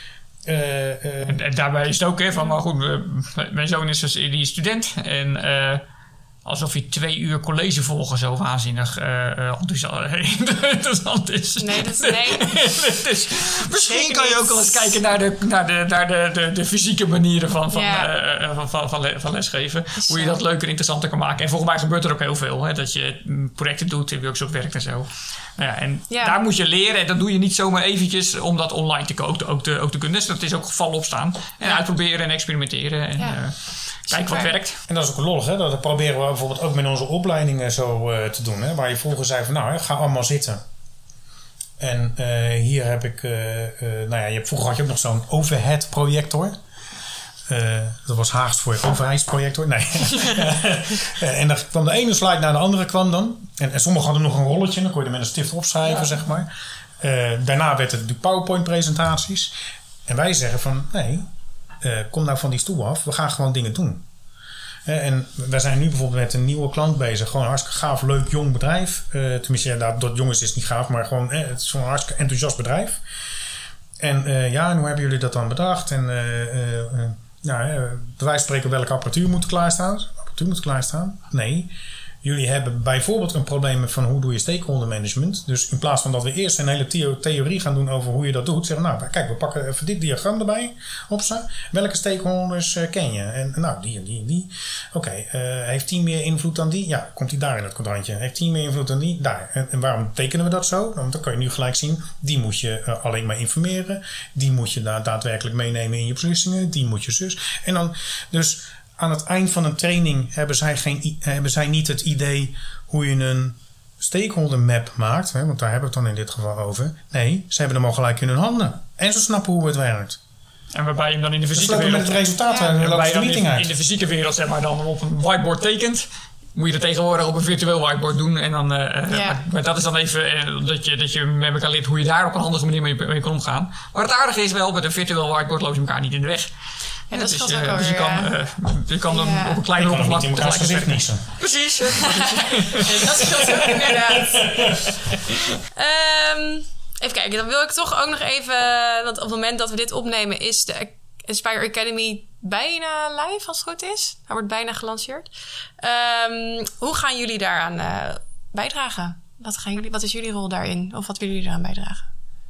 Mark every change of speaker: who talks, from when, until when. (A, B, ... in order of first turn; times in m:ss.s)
0:00.5-0:01.4 A
0:01.3-0:05.8 B
0:06.4-0:33.6 B
0:11.6-0:12.6 C
0:13.8-0:14.7 C
0:17.7-0:18.1 C
0:20.0-0:20.4 C
0:26.1-0:26.4 C
0:34.1-0:34.8 B
0:34.1-0:34.5 C
0:34.9-0:40.6 A
0:41.8-0:46.6 A
0:47.5-0:56.5 A
0:57.0-0:59.5 A
1:00.1-1:01.3 A
1:01.8-1:04.0 A
1:04.9-1:13.0 A
1:14.0-1:21.7 A
1:22.2-2:00.2 A
2:00.7-2:16.5 B
2:01.5-2:03.7 A
2:09.1-2:09.4 C
2:17.1-2:18.4 C
2:17.1-2:23.5 B
2:19.1-2:19.6 C
2:19.8-2:21.3 A
2:21.9-2:24.7 C
2:23.9-2:24.9 A
2:25.8-2:35.3 C
2:35.8-2:42.0 C